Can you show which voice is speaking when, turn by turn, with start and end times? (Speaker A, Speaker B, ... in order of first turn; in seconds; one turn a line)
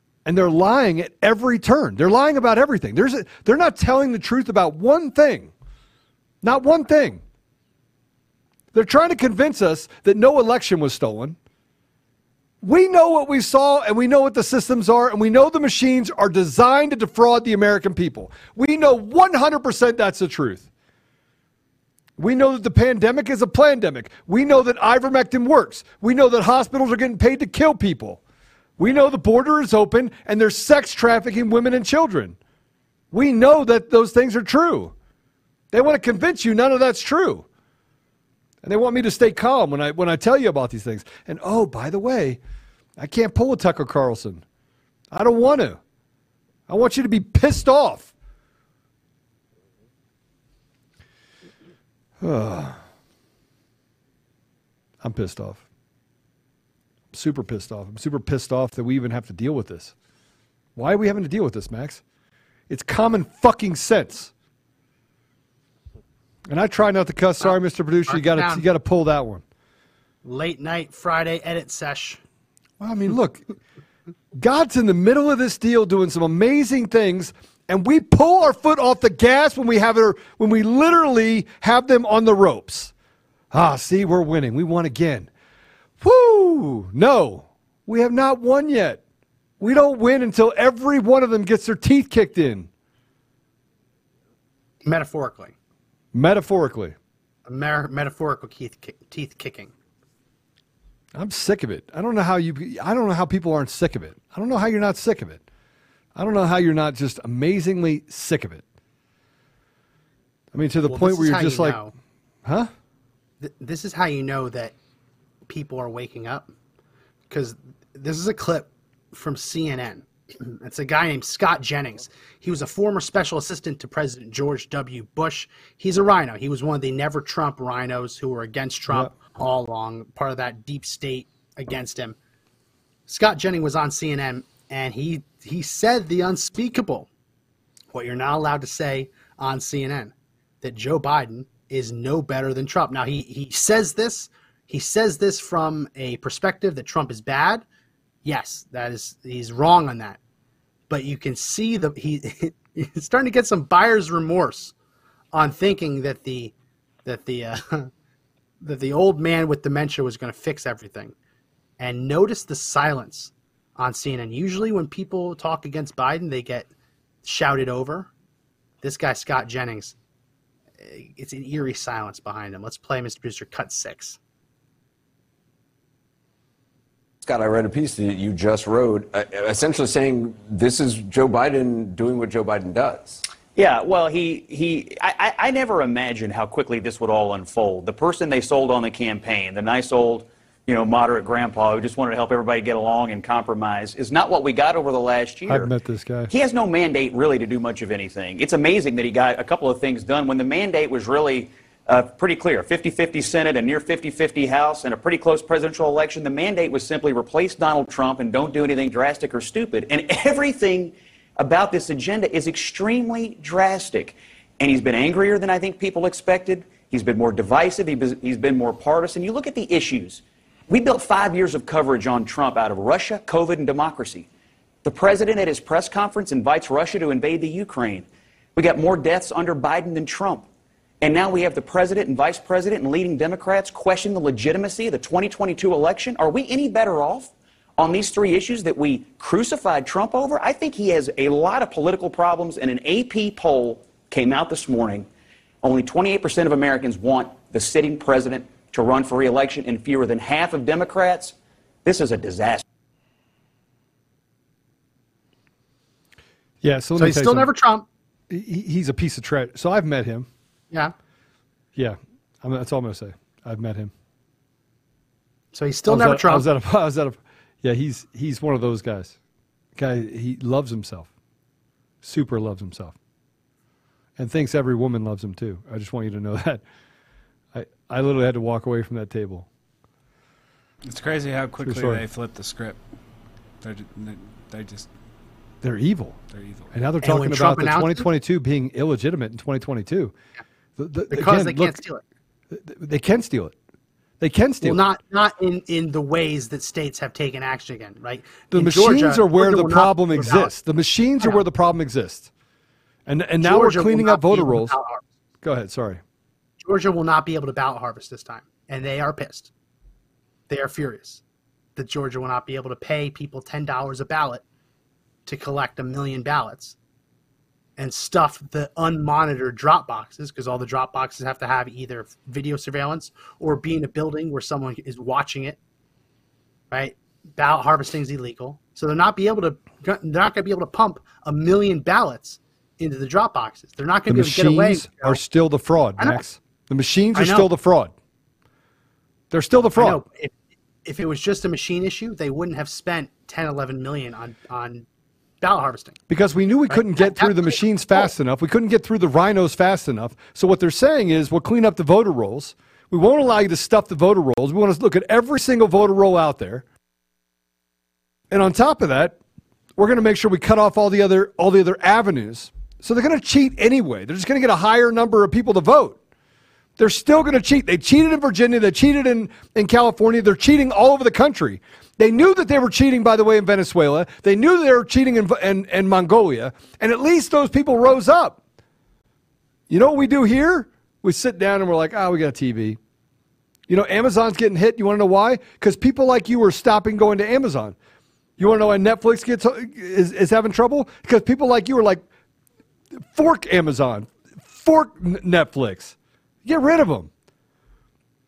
Speaker A: 0.2-5.5
Speaker A: 6.4-7.2
Speaker A: 8.7-11.4
Speaker A: 12.6-20.7
Speaker A: 22.2-28.2
Speaker A: 28.8-32.4
Speaker A: 33.1-34.9
Speaker A: 35.7-37.5
Speaker A: 38.6-42.4
Speaker A: 43.0-44.4
Speaker A: 45.1-45.8
Speaker A: 46.7-48.1
Speaker A: 52.2-52.8
Speaker A: 55.0-55.6
Speaker A: 57.1-59.9
Speaker A: 60.8-62.0
Speaker A: 62.7-64.3
Speaker A: 66.5-69.4
Speaker B: 68.1-68.7
Speaker B: 70.2-72.2
Speaker A: 72.8-73.4
Speaker A: 74.3-82.9
Speaker A: 83.5-85.3
Speaker A: 86.0-89.0
Speaker A: 89.6-92.7
Speaker B: 94.8-95.5
Speaker A: 96.1-97.0
Speaker B: 97.5-99.7
Speaker A: 101.2-105.4
Speaker A: 106.2-108.6
Speaker A: 110.5-111.8
Speaker B: 110.9-111.9
Speaker A: 112.4-112.7
Speaker B: 113.4-114.8
Speaker B: 115.5-116.5
Speaker B: 117.3-132.2
Speaker B: 133.1-137.1
Speaker B: 137.9-147.6
Speaker B: 148.2-150.2
Speaker B: 150.9-154.8
Speaker B: 155.3-156.5
Speaker B: 157.1-157.9
Speaker B: 158.6-161.2
Speaker B: 161.8-166.7
Speaker B: 167.2-168.1
Speaker B: 168.8-170.0
Speaker B: 170.8-174.2
Speaker C: 177.2-183.2
Speaker D: 183.6-195.7
Speaker A: 195.5-196.3
Speaker D: 196.3-224.3
Speaker D: 224.8-230.5
Speaker D: 231.0-245.1
Speaker D: 245.6-252.6
Speaker A: 256.6-257.5
Speaker B: 257.0-257.9
Speaker A: 258.3-260.3
Speaker A: 261.8-263.9
Speaker B: 265.5-266.5
Speaker A: 265.9-269.2
Speaker A: 269.8-271.1
Speaker A: 272.0-273.0
Speaker A: 274.2-276.6
Speaker A: 277.5-279.5
Speaker E: 280.9-282.8
Speaker A: 281.6-282.0
Speaker E: 283.6-284.9
Speaker A: 285.6-286.2
Speaker E: 286.3-286.7
Speaker A: 286.7-290.1
Speaker B: 287.0-288.1
Speaker A: 290.8-291.8
Speaker B: 291.1-292.0
Speaker A: 292.5-293.6
Speaker A: 294.2-294.8
Speaker B: 294.6-300.5
Speaker A: 298.5-302.3
Speaker A: 303.1-304.8
Speaker B: 303.4-305.0
Speaker A: 305.4-306.0
Speaker B: 306.6-309.5
Speaker B: 310.5-311.2
Speaker B: 311.8-314.4
Speaker B: 315.3-316.8
Speaker B: 317.8-325.6
Speaker B: 326.7-335.2
Speaker A: 334.1-337.9
Speaker B: 337.1-337.5
Speaker A: 339.3-340.0
Speaker B: 339.7-340.3
Speaker B: 340.9-344.9
Speaker B: 345.4-346.0
Speaker A: 346.1-356.6
Speaker B: 346.7-348.1
Speaker A: 358.3-359.2
Speaker A: 359.8-366.0
Speaker A: 366.8-378.4
Speaker A: 379.7-382.8
Speaker A: 383.7-387.8
Speaker A: 388.4-392.0
Speaker A: 393.0-397.1